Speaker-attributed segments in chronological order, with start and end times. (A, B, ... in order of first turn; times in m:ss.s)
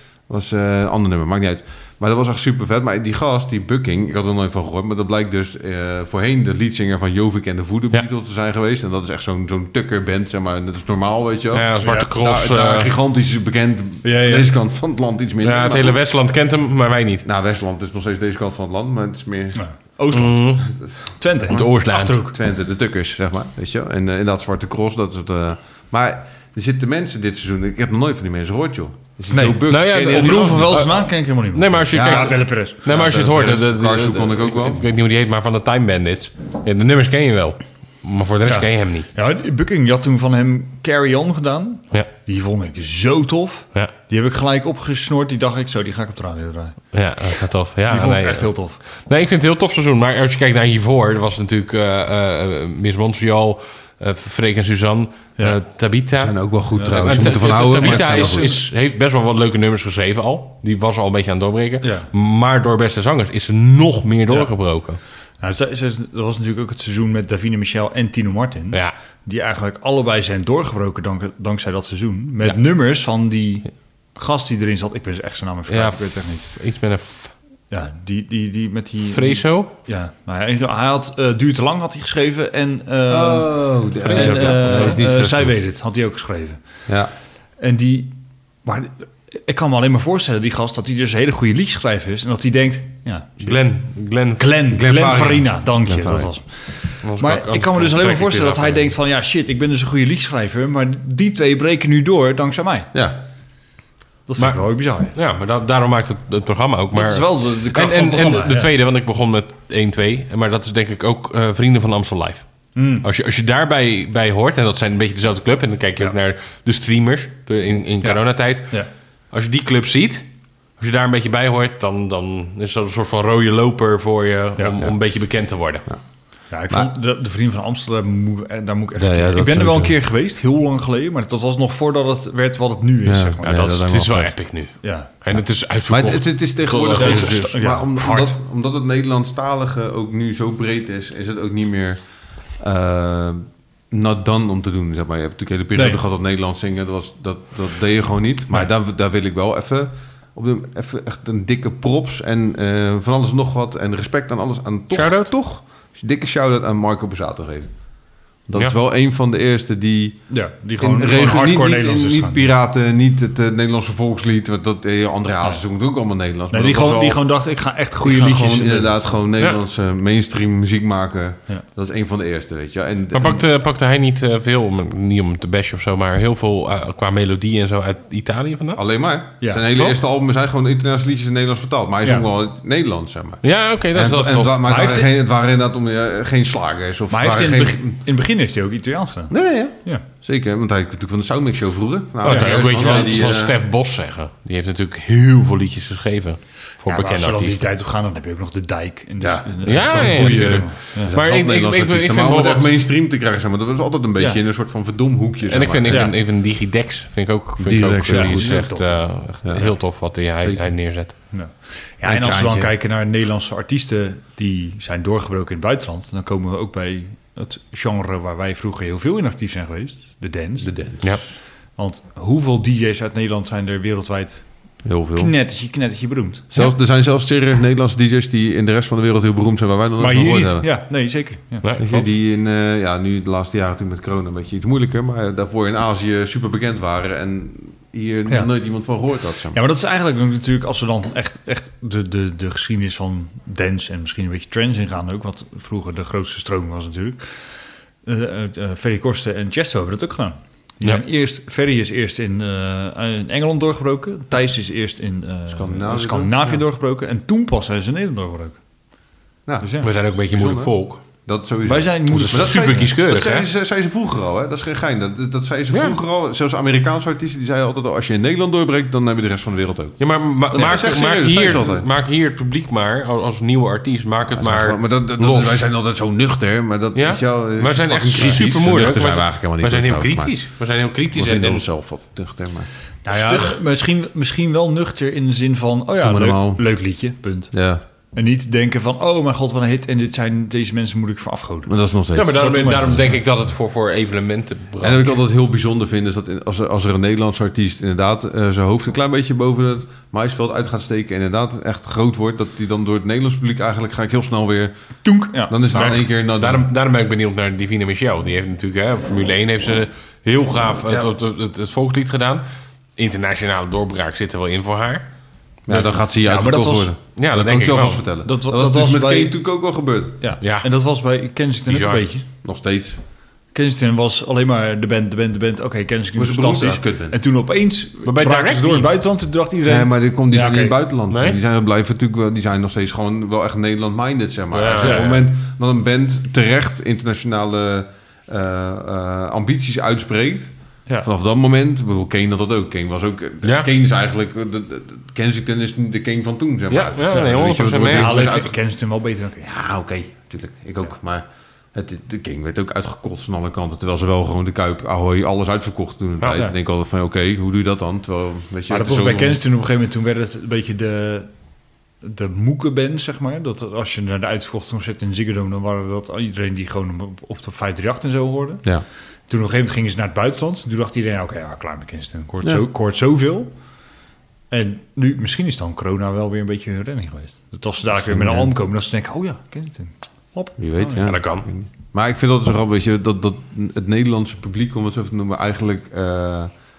0:00.3-0:16.0 A
0:11.5-0:12.9 B
0:11.8-0:12.1 C
0:14.0-0:14.5 C
0:15.4-0:17.2 B
0:17.2-0:19.6 A
0:19.5-0:22.4 C
0:20.1-0:20.6 B
0:20.8-0:30.8 A
0:21.5-0:22.2 B
0:29.3-0:33.1 C
0:29.7-0:39.1 B
0:31.9-0:34.8 A
0:38.4-0:46.8 C
0:46.9-1:05.0 B
0:47.9-0:48.8 C
0:56.2-0:58.5 A
0:56.7-0:58.6 C
1:01.8-1:02.1 C
1:04.3-1:04.7 C
1:05.4-1:16.5 C
1:15.7-1:17.3 B
1:17.7-1:26.8 C
1:19.1-1:19.7 B
1:23.1-1:25.5 A
1:24.0-1:25.0 B
1:27.6-1:33.6 C
1:33.4-1:34.5 B
1:34.4-1:42.9 C
1:34.7-1:36.3 A
1:37.0-1:38.9 B
1:42.9-1:43.2 A
1:44.3-1:45.1 C
1:44.4-1:52.5 B
1:46.9-1:48.7 C
1:52.7-1:53.0 C
1:53.0-2:05.9 B
1:58.0-1:58.9 C
2:06.5-2:13.8 C
2:08.9-2:10.0 A
2:13.0-2:14.4 A
2:13.4-2:17.4 B
2:14.8-2:15.3 C
2:15.9-2:37.8 A
2:16.9-2:18.4 C
2:25.7-2:26.0 C
2:34.9-2:35.3 B
2:38.4-2:47.2 A
2:40.3-2:42.5 C
2:46.5-2:49.2 C
2:48.0-2:53.4 A
2:53.1-2:58.8 B
2:58.8-3:08.0 A
2:59.4-3:00.0 C
3:03.4-3:04.5 B
3:04.6-3:05.1 C
3:07.1-3:10.0 C
3:09.3-3:13.6 A
3:12.2-3:17.6 B
3:12.2-3:13.3 C
3:16.8-3:21.1 C
3:19.2-3:26.1 A
3:19.6-3:22.7 B
3:25.5-3:31.1 B
3:25.9-3:26.1 C
3:27.6-3:28.7 A
3:28.1-3:29.0 C
3:29.4-3:30.7 A
3:31.3-3:40.7 C
3:32.0-3:32.7 A
3:40.6-3:41.3 A
3:41.8-3:46.6 C
3:44.8-3:45.3 A
3:46.5-3:50.7 A
3:50.0-3:52.0 C
3:51.6-3:51.9 B
3:51.8-3:59.6 A
3:59.5-4:18.6 C
4:15.5-4:16.6 A
4:19.4-4:31.9 A
4:19.6-4:19.9 C
4:19.8-4:21.0 B
4:21.6-4:22.9 C
4:22.1-4:23.5 B
4:25.7-4:26.0 B
4:30.0-4:35.6 B
4:34.3-4:40.4 A
4:36.9-4:41.6 B
4:41.1-4:43.5 A
4:43.0-4:47.5 C
4:46.0-4:46.6 A
4:47.5-4:47.8 A
4:48.1-4:51.8 C
4:51.6-4:53.0 A
4:52.1-4:55.1 B
4:52.4-4:53.2 C
4:54.8-5:04.7 A
5:05.0-5:06.0 C
5:05.5-5:06.7 A
5:05.7-5:15.1 B
5:15.6-5:20.2 A
5:15.7-5:16.9 C
5:17.2-5:18.0 B
5:18.2-5:19.4 C
5:20.2-5:22.2 C
5:20.4-5:20.7 B
5:21.7-5:22.0 B
5:22.4-5:23.0 A
5:23.5-5:30.8 C
5:26.1-5:27.2 A
5:28.0-5:29.0 B
5:29.6-5:48.5 A
5:31.1-5:31.4 B
5:34.5-5:35.2 B
5:34.8-5:35.2 C
5:43.4-5:43.7 B
5:46.7-5:48.4 B
5:47.8-5:49.5 C
5:49.4-5:59.4 A
5:58.7-6:01.3 C
6:02.0-6:08.7 C
6:09.3-6:13.5 C
6:14.5-6:21.1 C
6:17.9-6:18.5 A
6:20.6-6:26.5 A
6:21.0-6:21.5 B